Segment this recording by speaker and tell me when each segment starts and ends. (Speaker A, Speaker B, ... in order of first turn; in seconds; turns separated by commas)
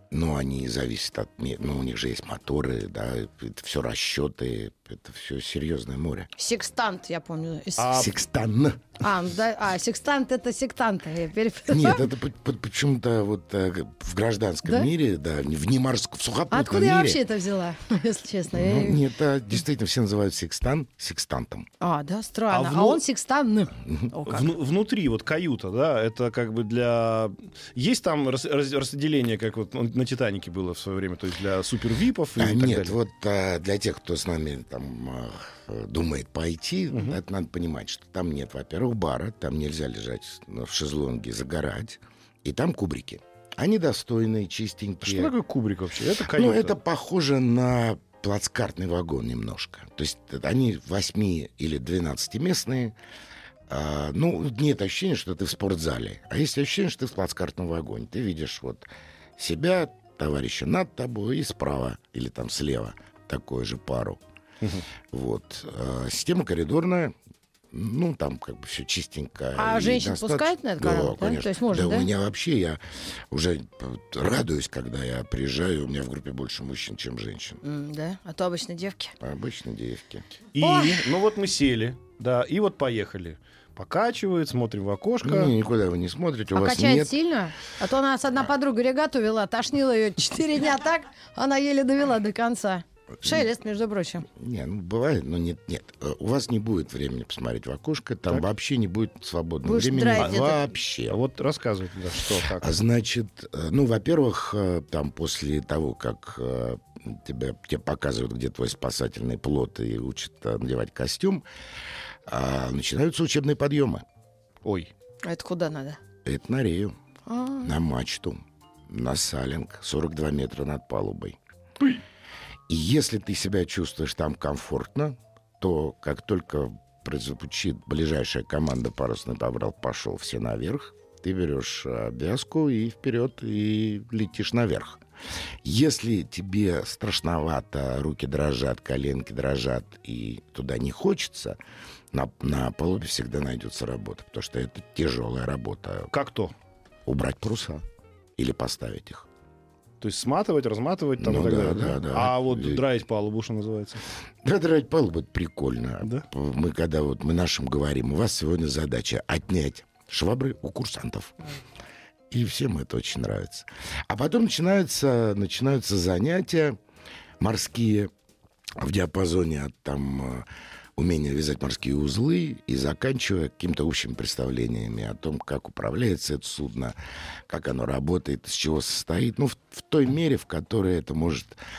Speaker A: 0.1-6.3, Speaker B: 6.3-8.0, Speaker C: 7.8-8.1, Speaker A: 7.9-8.8, Speaker B: 9.0-12.0, Speaker A: 11.7-17.2, Speaker B: 16.5-19.0, Speaker A: 18.5-21.7, Speaker B: 21.8-24.5, Speaker C: 22.5-23.0, Speaker A: 23.8-24.1, Speaker C: 24.2-33.0, Speaker A: 32.4-45.3, Speaker C: 36.9-37.2, Speaker C: 45.0-46.8, Speaker A: 46.2-53.0, Speaker A: 53.7-58.8, Speaker A: 59.4-64.2, Speaker A: 65.1-67.1, Speaker A: 67.7-77.6, Speaker B: 69.6-72.1, Speaker B: 77.6-79.1, Speaker A: 79.2-80.2, Speaker C: 80.5-85.5, Speaker B: 80.6-81.0, Speaker A: 85.2-87.1, Speaker B: 86.5-94.3, Speaker A: 94.3-101.2, Speaker B: 99.6-100.7, Speaker C: 100.2-100.5, Speaker C: 101.1-102.7, Speaker A: 102.6-111.4, Speaker A: 112.3-114.0, Speaker C: 114.6-114.9, Speaker B: 115.2-116.0, Speaker A: 116.2-117.0, Speaker B: 117.3-117.7, Speaker A: 117.6-121.4, Speaker A: 122.7-135.0, Speaker A: 135.6-141.6, Speaker A: 142.1-146.1, Speaker C: 146.1-146.5, Speaker A: 147.1-147.8, Speaker A: 148.4-149.3, Speaker C: 150.0-154.0, Speaker A: 151.2-152.8, Speaker A: 154.4-161.4, Speaker A: 162.3-166.8, Speaker A: 167.4-168.1, Speaker A: 168.8-176.9, Speaker A: 177.5-181.6